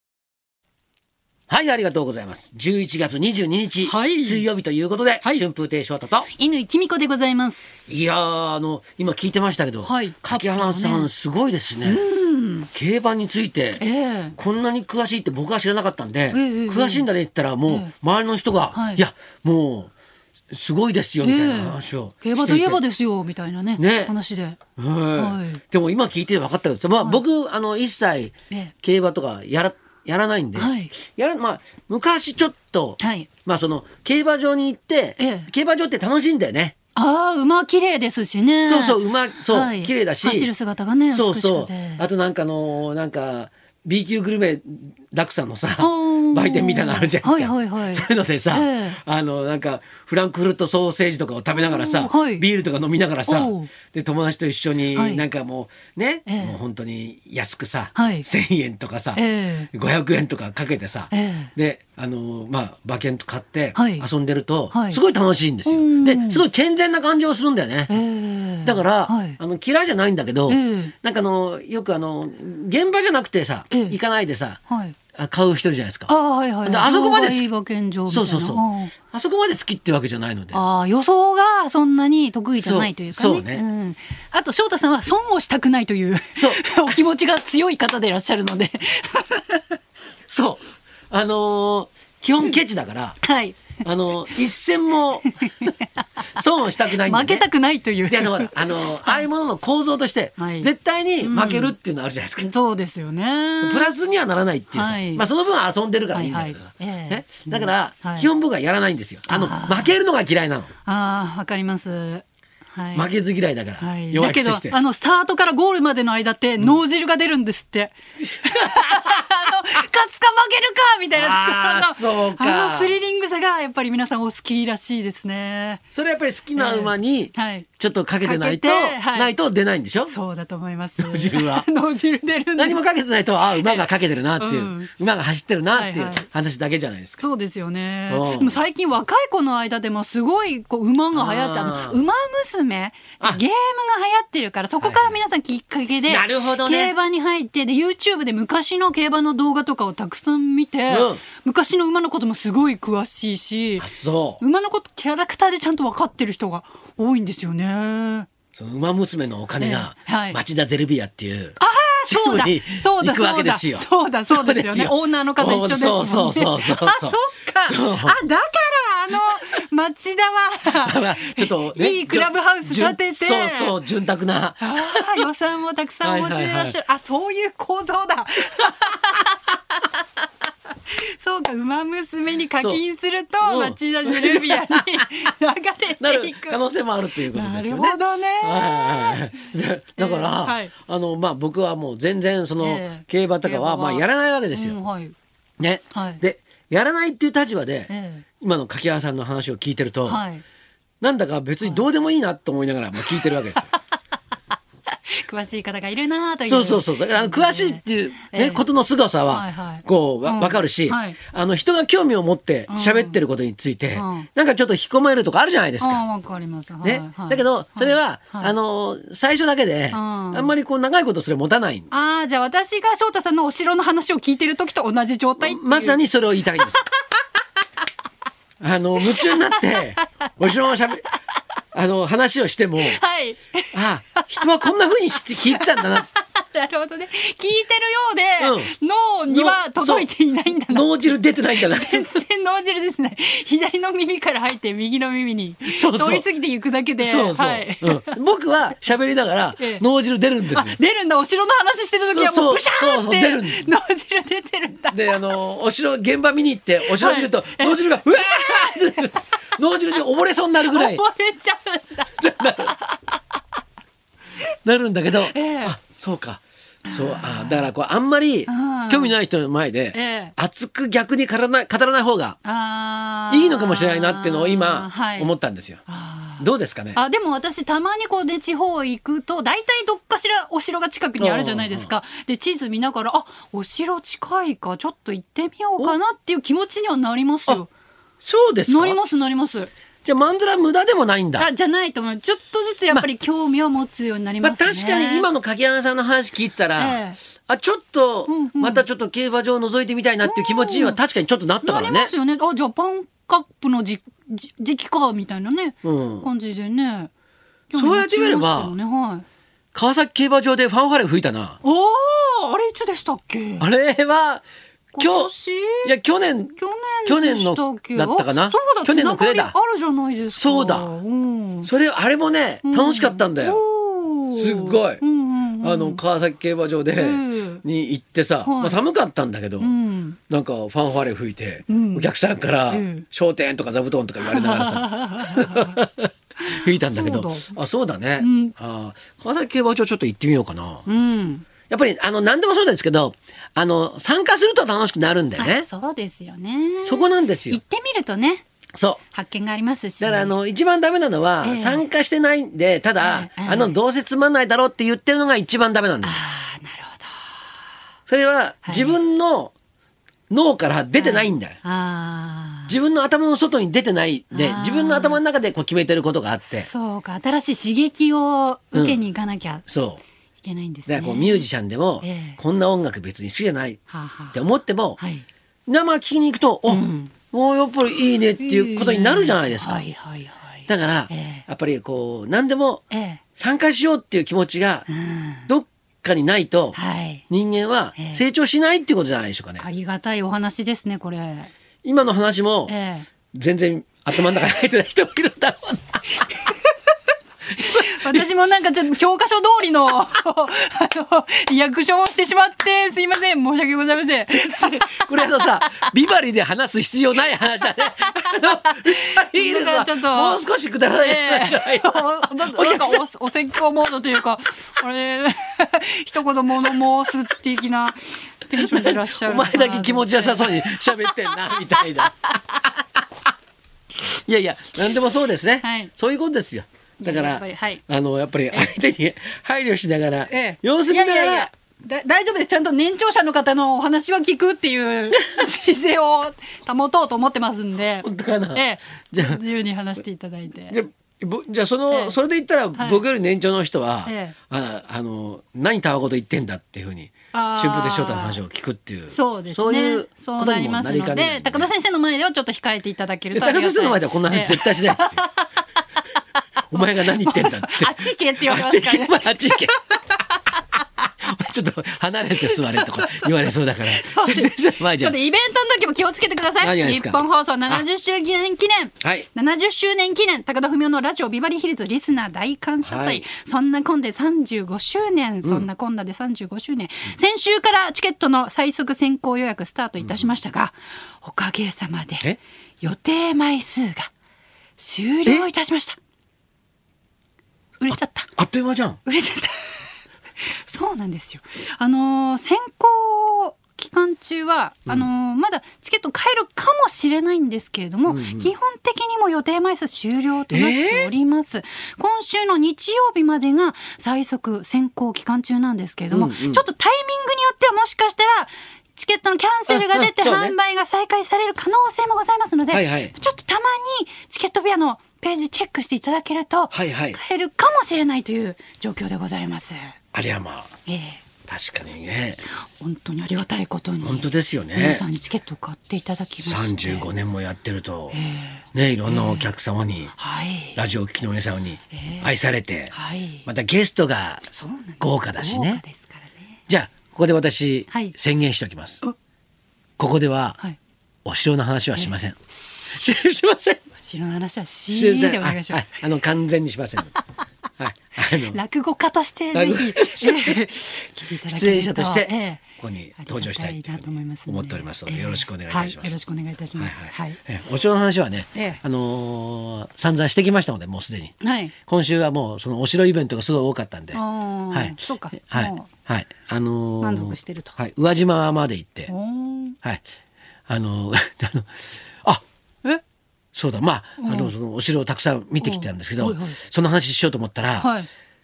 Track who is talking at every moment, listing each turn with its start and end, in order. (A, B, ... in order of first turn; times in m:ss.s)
0:01.5-0:06.3 A
0:03.8-0:04.5 B
0:06.3-0:07.8 B
0:07.9-0:12.0 A
0:09.8-0:11.1 B
0:11.8-0:12.7 B
0:12.7-0:13.8 A
0:13.8-0:14.3 B
0:14.4-0:19.9 A
0:16.3-0:17.0 B
0:17.7-0:17.9 B
0:18.7-0:19.0 B
0:20.5-0:22.8 A
0:21.2-0:24.6 B
0:23.8-0:24.1 A
0:24.8-0:36.7 A
0:25.2-0:25.6 B
0:30.5-0:30.9 B
0:33.0-0:33.3 B
0:35.2-0:35.5 B
0:36.9-0:42.0 B
0:38.6-0:40.5 A
0:41.1-1:08.0 A
0:45.8-0:49.0 B
0:51.5-0:52.4 B
0:53.2-0:53.7 B
0:54.9-0:55.2 B
0:56.3-0:56.6 B
0:57.9-0:58.3 B
0:59.1-0:59.7 B
1:01.1-1:01.5 B
1:03.7-1:04.1 B
1:04.7-1:05.0 B
1:05.6-1:06.4 B
1:07.9-1:09.4 B
1:08.6-1:14.6 A
1:10.5-1:10.9 B
1:13.7-1:14.0 B
1:14.7-1:15.0 B
1:15.1-1:17.5 A
1:16.1-1:18.9 B
1:18.1-1:20.6 A
1:20.5-1:29.8 B
1:22.5-1:23.6 A
1:26.3-1:27.1 A
1:30.3-1:33.2 A
1:33.2-1:33.8 B
1:33.8-1:35.7 A
1:35.2-1:35.7 B
1:36.4-1:37.5 A
1:36.9-1:39.3 B
1:38.0-1:42.5 A
1:40.4-1:41.7 B
1:42.4-1:43.9 B
1:43.6-1:50.7 A
1:44.7-1:45.2 B
1:46.1-1:48.3 B
1:49.3-1:50.0 B
1:50.8-1:53.1 B
1:52.9-1:54.8 A
1:53.8-2:05.8 B
1:58.4-1:59.2 A
2:01.1-2:03.0 A
2:05.9-2:10.1 A
2:06.5-2:07.7 B
2:08.2-2:09.3 B
2:10.0-2:12.8 B
2:11.0-2:11.7 A
2:12.6-2:17.2 A
2:13.6-2:14.9 B
2:15.7-2:16.2 B
2:17.2-2:33.9 B
2:18.1-2:18.6 A
2:21.1-2:22.0 A
2:24.8-2:25.1 A
2:26.1-2:26.9 A
2:30.9-2:31.2 A
2:33.8-2:34.4 A
2:34.4-2:38.3 B
2:38.5-2:48.2 A
2:39.6-2:40.4 B
2:41.6-2:53.8 B
2:50.7-2:55.3 A
2:54.6-2:59.8 B
2:56.0-2:56.8 A
3:01.0-3:06.6 B
3:02.6-3:02.8 A
3:03.4-3:05.0 A
3:06.0-3:14.8 A
3:07.3-3:09.4 B
3:10.0-3:10.7 B
3:12.6-3:15.2 B
3:15.6-3:20.2 A
3:15.9-3:16.2 B
3:17.9-3:18.2 B
3:20.1-3:20.4 B
3:21.0-3:23.7 A
3:23.0-3:23.3 B
3:25.1-3:28.6 B
3:26.4-3:36.0 A
3:29.2-3:31.2 B
3:32.7-3:33.2 B
3:33.9-3:34.3 B
3:35.8-3:38.5 B
3:36.8-3:41.9 A
3:39.9-3:40.5 B
3:41.9-3:46.0 B
3:45.4-3:46.8 A
3:48.6-3:51.0 A
3:49.0-3:50.3 B
3:51.7-3:53.0 A
3:52.8-3:54.7 B
3:53.7-3:56.1 A
3:55.4-4:08.2 B
3:58.4-3:58.7 A
3:59.3-4:00.1 A
4:00.7-4:02.2 A
4:05.7-4:06.2 A
4:07.0-4:10.8 A
4:09.6-4:09.8 B
4:10.5-4:15.2 B
4:12.0-4:13.7 A
4:14.9-4:21.0 A
4:16.9-4:19.2 B
4:20.7-4:22.7 B
4:22.2-4:22.8 A
4:24.6-4:32.4 A
4:25.3-4:25.7 B
4:26.8-4:27.7 B
4:28.5-4:29.1 B
4:29.9-4:30.3 B
4:32.4-4:35.3 B
4:33.3-4:35.8 A
4:35.8-4:47.7 B
4:36.4-4:37.0 A
4:41.2-4:41.9 A
4:48.2-4:49.0 A
4:48.7-4:49.7 B
4:50.0-4:51.5 A
4:51.4-4:55.3 B
4:54.4-5:02.1 A
4:56.8-4:57.2 B
4:58.3-4:58.8 B
5:00.2-5:01.0 B
5:01.6-5:07.1 B
5:05.8-5:06.3 A
5:07.7-5:09.2 B
5:07.7-5:08.7 A
5:09.7-5:11.6 A
5:11.6-5:13.6 B
5:13.6-5:14.4 A
5:14.9-5:15.9 B
5:15.0-5:19.6 A
5:16.6-5:21.7 B
5:20.4-5:20.9 A
5:21.6-5:23.6 A
5:22.6-5:26.0 B
5:24.3-5:25.0 A
5:25.6-5:29.8 A
5:27.0-5:27.6 B
5:28.4-5:28.8 B
5:29.6-5:30.2 B
5:30.3-5:40.8 A
5:31.7-5:32.1 B
5:32.7-5:33.0 B
5:34.2-5:35.7 B
5:36.4-5:37.5 B
5:38.2-5:38.5 B
5:40.8-5:41.5 B
5:41.7-5:45.7 A
5:45.4-5:48.4 B
5:46.8-5:47.6 A
5:48.7-5:49.0 A
5:49.1-5:50.3 B
5:50.0-5:56.2 A
5:51.4-5:51.8 B
5:53.0-5:53.8 B
5:56.0-5:57.5 B
5:58.1-5:59.5 A
5:58.6-5:59.0 B
6:00.3-6:01.6 A
6:00.9-6:02.7 B
6:02.7-6:06.7 A
6:04.3-6:05.2 B
6:06.5-6:09.6 B
6:08.7-6:09.0 A
6:09.7-6:10.0 A
6:10.4-6:11.5 B
6:10.9-6:15.0 A
6:12.0-6:12.4 B
6:13.9-6:14.4 B
6:15.0-6:15.2 B
6:15.7-6:19.9 A
6:16.7-6:17.1 B
6:18.4-6:21.4 B
6:20.7-6:22.8 A
6:22.9-6:23.2 B
6:23.4-6:24.9 A
6:24.9-6:25.5 B
6:25.5-6:26.8 A
6:26.7-6:27.2 B
6:27.3-6:29.6 A
6:28.0-6:28.2 B
6:29.6-6:31.5 B
6:31.8-6:32.7 A
6:32.7-6:33.1 B
6:33.3-6:36.0 A
6:37.6-6:45.9 B
6:37.7-6:38.2 A
6:44.3-6:53.0 A
6:48.1-6:50.4 B
6:51.0-7:02.1 B
6:58.5-7:02.1 A
7:04.2-7:11.5 A
7:05.6-7:05.9 B
7:07.0-7:07.8 B
7:10.3-7:20.8 B
7:18.0-7:19.4 A
7:20.7-7:31.7 A
7:21.9-7:22.2 B
7:22.8-7:23.0 B
7:24.0-7:24.4 B
7:27.3-7:28.4 B
7:29.1-7:35.5 B
7:33.3-7:35.2 A
7:36.7-7:39.8 A
7:36.7-7:40.4 B
7:41.2-7:45.2 A
7:42.4-7:43.4 B
7:43.9-8:02.3 B
7:46.6-7:47.8 A
7:49.0-7:49.2 A
7:52.8-7:53.3 A
7:55.4-7:55.7 A
8:00.0-8:00.3 A
8:02.8-8:04.1 B
8:04.8-8:06.0 B
8:07.8-8:08.3 B
8:07.9-8:09.0 A
8:09.0-8:40.0 B
8:18.0-8:18.5 A
8:20.5-8:21.1 A
8:26.1-8:26.6 A
8:29.7-8:30.6 A
8:32.7-8:33.1 A
8:36.7-8:37.2 A
8:40.1-8:40.7 A
8:40.8-8:41.2 B
8:41.5-8:42.4 A
8:42.6-8:47.1 B
8:44.0-8:45.0 A
8:46.4-8:48.2 A
8:48.1-8:49.5 B
8:48.7-8:50.1 A
8:50.1-8:50.8 B
8:50.8-8:52.9 A
8:51.9-8:52.3 B
8:52.9-8:53.5 B
8:53.4-8:55.8 A
8:54.5-8:56.5 B
8:56.7-8:59.0 A
8:57.9-8:58.2 B
9:00.0-9:00.6 A
9:01.2-9:03.8 A
9:01.9-9:03.1 B
9:03.9-9:06.1 B
9:04.9-9:07.1 A
9:07.8-9:08.6 A
9:08.3-9:12.6 B
9:09.5-9:16.2 A
9:13.2-9:17.4 B
9:16.8-9:29.1 A
9:18.5-9:18.8 B
9:21.4-9:21.7 B
9:24.1-9:25.9 B
9:27.0-9:27.8 B
9:29.1-9:29.8 B
9:30.7-9:32.4 A
9:33.5-9:37.9 A
9:34.2-9:34.5 B
9:35.6-9:36.6 B
9:37.8-9:38.1 B